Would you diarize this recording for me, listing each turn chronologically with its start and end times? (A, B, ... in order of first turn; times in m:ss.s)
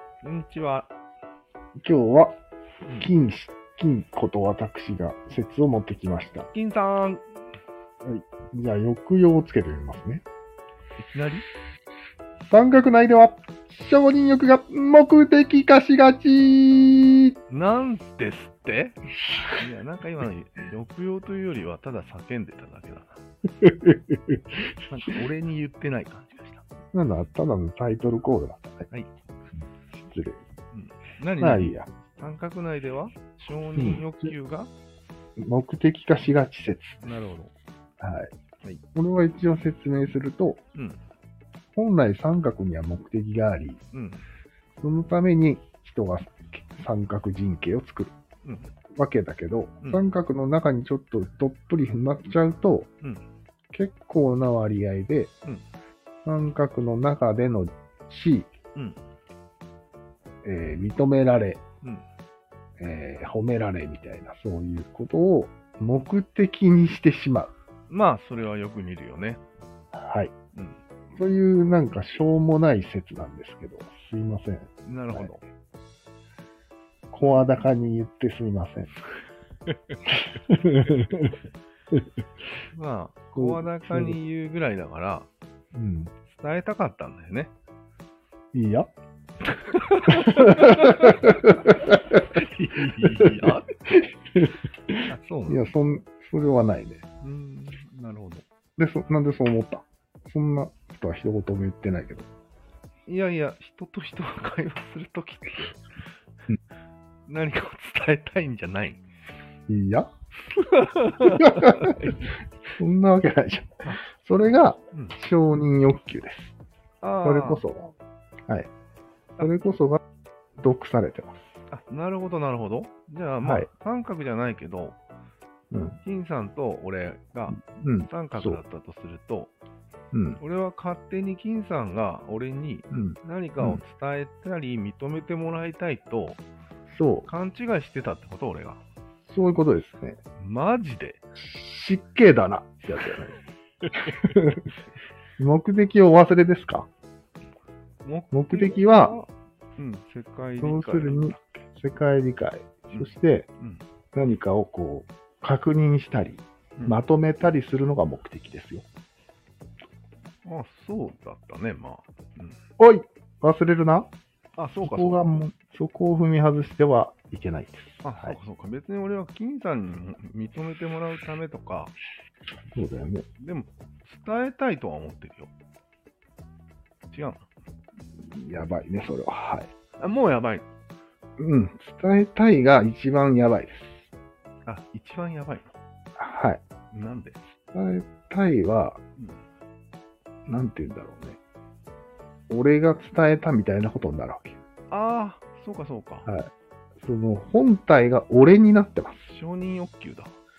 0:00.2-0:00.9 A
0:01.8-0:02.3 B
0:02.8-0:03.1 A
0:03.0-0:06.5 B
0:06.5-0:07.2 A
0:08.0-0:10.2 B
0:11.0-0:11.5 A
0:12.4-0:17.4 B
0:17.5-0:19.0 A
0:19.6-0:23.2 A
0:23.6-0:24.1 B
0:24.9-0:26.6 A
0:26.9-0:28.9 B
0:29.9-0:30.4 B
0:30.7-0:34.7 A
0:31.4-0:31.9 B
0:33.8-0:34.0 B
0:35.4-0:37.0 B
0:37.0-0:37.5 A
0:38.0-0:38.3 B
0:38.9-0:40.6 B
0:40.7-0:41.0 A
0:41.7-0:43.8 B
0:43.9-0:44.2 A
0:44.8-0:48.1 B
0:48.4-0:48.7 A
0:48.9-0:52.9 B
0:53.7-0:55.3 B
0:56.2-0:58.5 B
0:58.7-0:59.0 A
1:00.4-1:01.6 B
1:02.8-1:07.5 B
1:07.9-1:09.4 A
1:09.9-1:10.3 B
1:11.2-1:15.4 B
1:14.8-1:15.4 A
1:17.1-1:18.9 B
1:20.3-1:21.3 B
1:22.7-1:25.3 A
1:23.3-1:24.2 B
1:25.7-1:26.1 B
1:26.3-1:27.5 A
1:28.5-1:28.9 B
1:29.5-1:31.7 A
1:30.0-1:32.4 B
1:32.2-1:33.8 A
1:33.0-1:37.0 B
1:35.1-1:35.6 A
1:37.2-1:38.4 A
1:38.8-1:42.3 B
1:43.1-1:45.8 A
1:47.3-1:49.0 A
1:49.7-1:50.1 B
1:50.5-1:52.3 A
1:51.2-1:56.5 B
1:57.0-1:57.6 A
1:57.2-1:57.9 B
1:59.4-2:00.0 B
2:00.6-2:01.5 B
2:01.7-2:05.0 A
2:03.4-2:03.7 B
2:05.7-2:06.0 B
2:06.0-2:09.5 A
2:07.6-2:08.6 B
2:10.1-2:10.4 B
2:10.4-2:16.4 A
2:12.9-2:13.8 B
2:16.9-2:17.3 B
2:17.3-2:18.8 A
2:19.3-2:20.2 B
2:20.4-2:21.2 A
2:21.3-2:23.4 B
2:24.0-2:24.6 B
2:25.4-2:26.9 B
2:28.0-2:31.4 A
2:28.3-2:29.2 B
2:30.6-2:33.5 B
2:32.9-2:33.8 A
2:34.1-2:38.8 B
2:40.4-2:42.6 A
2:42.8-2:44.1 B
2:44.6-2:45.4 A
2:44.8-2:48.4 B
2:48.0-2:51.9 A
2:52.7-2:53.2 B
2:53.4-2:55.5 A
2:57.1-2:57.4 A
2:58.1-2:59.7 B
3:00.0-3:00.7 A
3:01.4-3:04.1 B
3:04.6-3:05.7 A
3:06.2-3:06.6 B
3:06.9-3:07.4 A
3:07.7-3:09.0 B
3:10.5-3:11.4 B
3:12.5-3:14.6 B
3:14.9-3:16.3 A
3:17.0-3:19.3 B
3:19.3-3:20.3 A